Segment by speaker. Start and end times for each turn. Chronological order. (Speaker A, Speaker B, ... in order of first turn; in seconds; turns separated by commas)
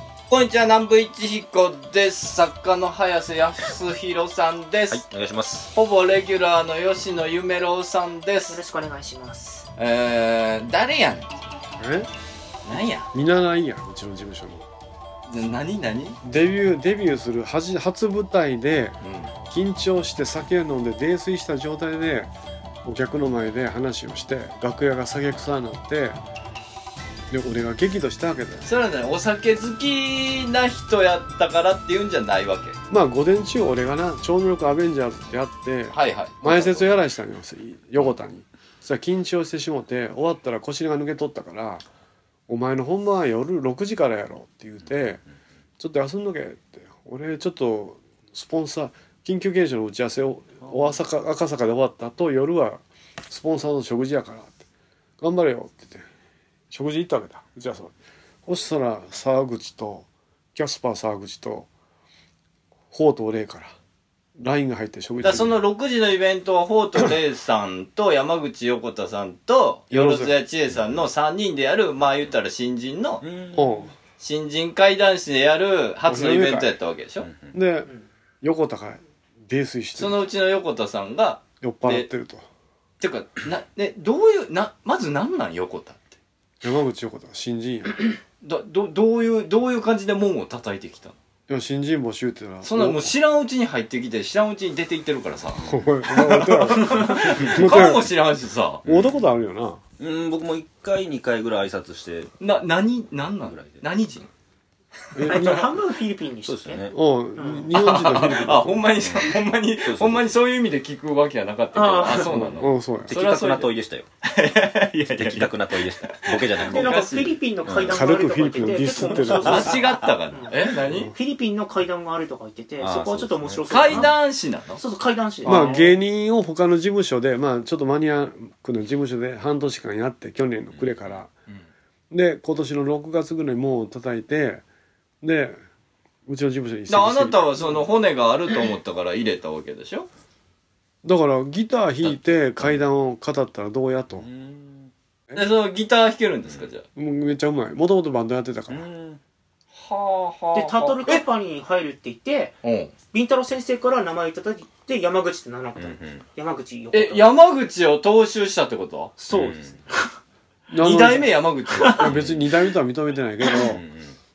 Speaker A: 0.3-5.0, Speaker B: 4.9-5.7, Speaker A: 5.7-8.6, Speaker C: 8.5-9.7, Speaker A: 9.8-11.3, Speaker D: 11.8-12.1, Speaker A: 12.6-13.1, Speaker D: 13.1-14.7, Speaker A: 15.3-16.2, Speaker D: 16.2-22.3, Speaker A: 19.0-19.3, Speaker D: 22.8-26.2, Speaker D: 27.3-28.7, Speaker A: 28.6-32.8, Speaker D: 32.9-41.8, Speaker A: 35.9-36.9, Speaker D: 42.5-45.2, Speaker D: 45.8-54.6, Speaker D: 55.2-56.0, Speaker D: 56.7-57.9, Speaker D: 58.5-61.7, Speaker D: 62.9-63.7, Speaker D: 64.3-65.5, Speaker A: 65.2-73.2, Speaker D: 69.9-70.3, Speaker B: 73.2-73.8, Speaker D: 73.5-73.9, Speaker A: 74.2-77.3, Speaker D: 76.1-76.7, Speaker B: 77.2-77.5, Speaker D: 77.5-77.9, Speaker D: 78.4-80.2, Speaker A: 80.0-82.1, Speaker D: 81.6-82.5, Speaker A: 83.0-86.2, Speaker D: 86.6-88.0, Speaker A: 88.4-91.2, Speaker D: 91.5-93.2, Speaker A: 92.6-98.8, Speaker D: 95.6-98.1, Speaker B: 98.8-99.2, Speaker D: 98.8-99.8, Speaker B: 100.0-102.3, Speaker A: 102.4-104.3, Speaker B: 103.5-103.8, Speaker D: 105.1-105.6, Speaker C: 105.2-107.7, Speaker A: 105.2-105.6, Speaker B: 106.4-106.9, Speaker D: 106.9-108.9, Speaker A: 107.7-113.7, Speaker B: 109.0-110.3, Speaker C: 111.7-112.5, Speaker D: 112.4-113.1, Speaker B: 113.1-114.0, Speaker A: 114.2-117.4, Speaker B: 115.1-118.0, Speaker C: 116.6-126.0, Speaker D: 117.9-119.7, Speaker A: 119.4-121.1, Speaker B: 122.8-124.1, Speaker A: 123.7-124.8, Speaker D: 125.5-131.3, Speaker B: 130.7-131.2, Speaker D: 132.1-134.6, Speaker D: 135.2-135.6, Speaker D: 136.2-137.8, Speaker A: 136.9-140.1, Speaker D: 141.0-144.3, Speaker B: 142.0-142.8, Speaker B: 144.2-144.9, Speaker A: 145.3-146.8, Speaker D: 146.9-148.8, Speaker B: 148.7-149.2, Speaker A: 149.8-151.2, Speaker C: 150.5-152.6, Speaker A: 152.6-152.9, Speaker C: 153.1-157.3, Speaker B: 155.8-156.2, Speaker A: 156.9-159.2, Speaker C: 159.2-160.0, Speaker B: 159.3-159.8, Speaker D: 160.7-161.3, Speaker A: 160.8-162.1, Speaker C: 161.7-162.0, Speaker D: 162.0-163.8, Speaker B: 162.1-162.4, Speaker B: 163.6-164.1